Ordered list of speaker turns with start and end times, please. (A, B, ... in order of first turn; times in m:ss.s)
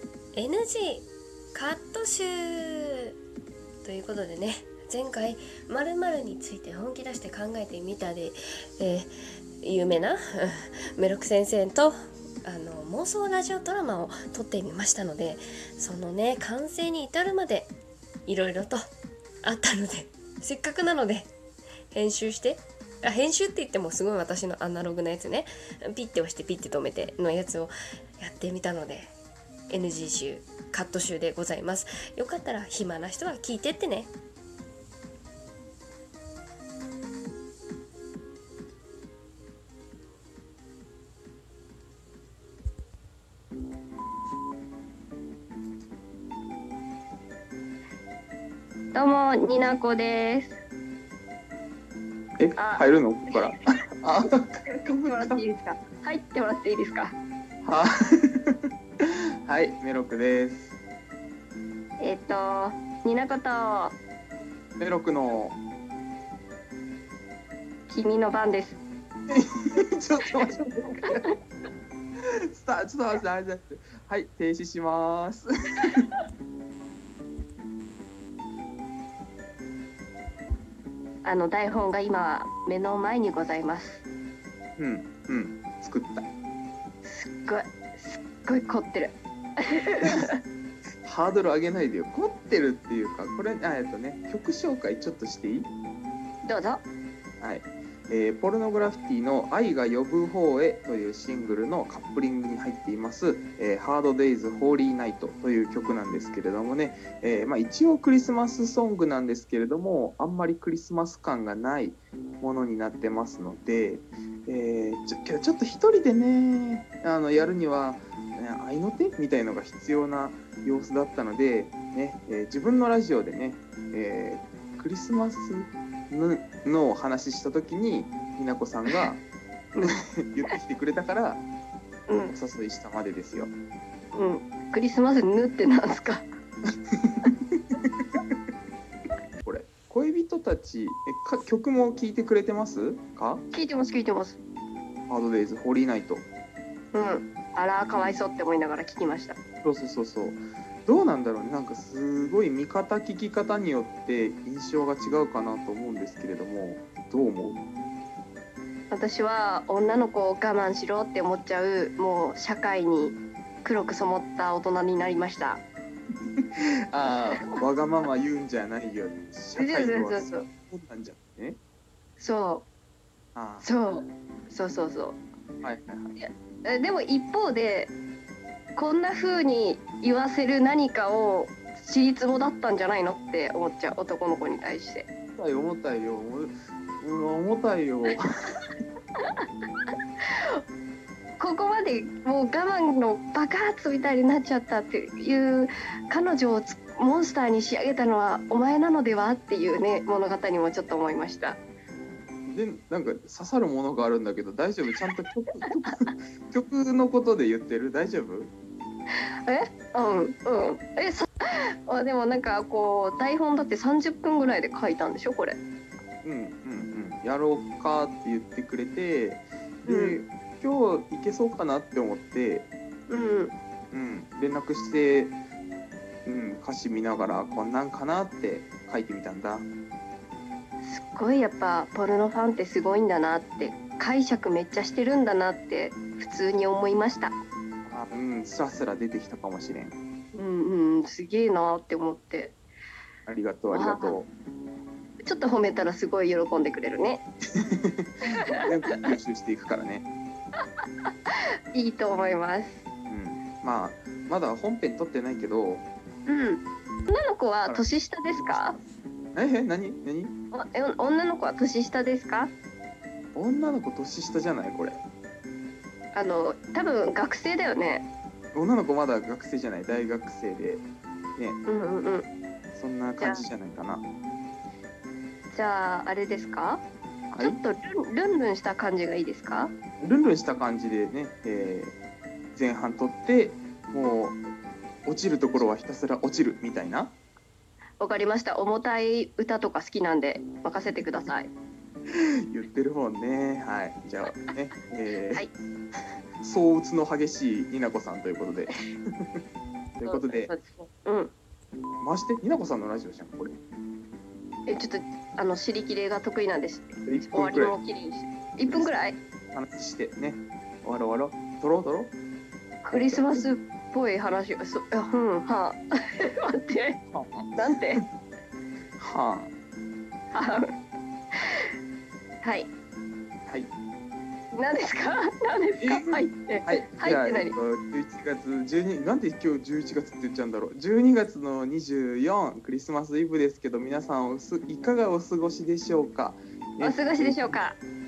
0:00.3-0:03.1 A
0:03.8-0:09.1 A
0:09.6-0:17.7 A
0:18.2-0:18.8 A
0:19.4-0:21.3 A
0:21.9-0:29.1 A
0:29.7-0:34.1 A
0:48.9-0:50.6 B
0:52.4-0:55.4 C
0:52.6-0:53.5 B
0:54.9-0:57.2 B
0:57.6-0:58.5 C
0:59.4-1:00.8 C
1:02.0-1:04.0 B
1:04.8-1:05.6 C
1:07.9-1:08.8 B
1:09.3-1:11.3 C
1:11.0-1:11.3 B
1:12.5-1:16.0 C
1:21.2-1:24.0 B
1:24.8-1:26.3 C
1:27.0-1:30.4 B
1:30.0-1:30.3 C
1:31.0-1:35.7 C
1:36.4-1:36.8 B
1:37.4-2:09.2 C
2:09.7-2:10.0 B
2:09.8-2:11.5 C
2:12.1-2:12.3 B
2:12.3-2:13.5 C
2:14.1-2:16.3 B
2:17.0-2:17.6 C
2:19.4-2:23.4 C
2:23.5-2:24.4 B
2:25.1-2:26.3 C
2:26.9-2:29.4 B
2:29.6-2:37.6 C
2:38.9-2:45.6 B
2:46.6-2:51.6 C
2:49.6-2:50.4 B
2:52.2-2:52.7 B
2:53.3-2:53.7 C
2:53.6-2:55.2 B
2:55.6-2:56.2 C
2:56.2-2:57.9 B
2:58.8-3:05.1 B
3:05.3-3:08.2 C
3:10.3-3:10.6 B
3:11.4-3:21.6 B
3:22.5-3:28.5 C
3:29.4-3:35.6 B
3:36.2-3:42.7 C
3:39.8-3:40.2 B
3:43.1-3:43.5 B
3:43.9-3:45.4 C
3:46.2-3:49.7 C
3:50.8-3:57.4 B
3:57.8-4:00.0 C
4:00.3-4:02.6 B
4:03.2-4:04.3 C
4:03.7-4:04.2 B
4:05.2-4:07.2 B
4:07.6-4:10.1 C
4:08.3-4:09.1 B
4:11.1-4:12.8 B
4:13.1-4:15.9 C
4:16.2-4:18.8 B
4:17.6-4:20.3 C
4:20.5-4:22.5 B
4:23.3-4:25.0 C
4:26.1-4:28.1 B
4:28.5-4:31.6 C
4:31.6-4:32.3 B
4:32.7-4:34.0 C
4:33.2-4:33.4 B
4:35.5-4:36.8 B
4:37.3-4:37.6 C
4:37.4-4:39.7 B
4:40.0-4:42.0 C
4:42.5-4:44.4 C
4:45.0-4:47.2 C
4:48.0-4:51.5 B
4:52.1-4:55.5 C
4:56.4-4:58.7 C
5:00.0-5:00.5 C
5:00.0-5:01.3 B
5:02.0-5:03.6 C
5:04.7-5:09.2 B
5:07.0-5:07.7 C
5:08.7-5:08.9 C
5:09.5-5:12.1 C
5:12.8-5:17.0 B
5:12.9-5:13.4 C
5:17.1-5:18.0 C
5:17.5-5:18.0 B
5:19.0-5:19.5 C
5:20.3-5:20.7 B
5:22.4-5:22.7 B
5:24.5-5:27.5 B
5:25.8-5:37.6 C
5:36.8-5:37.8 B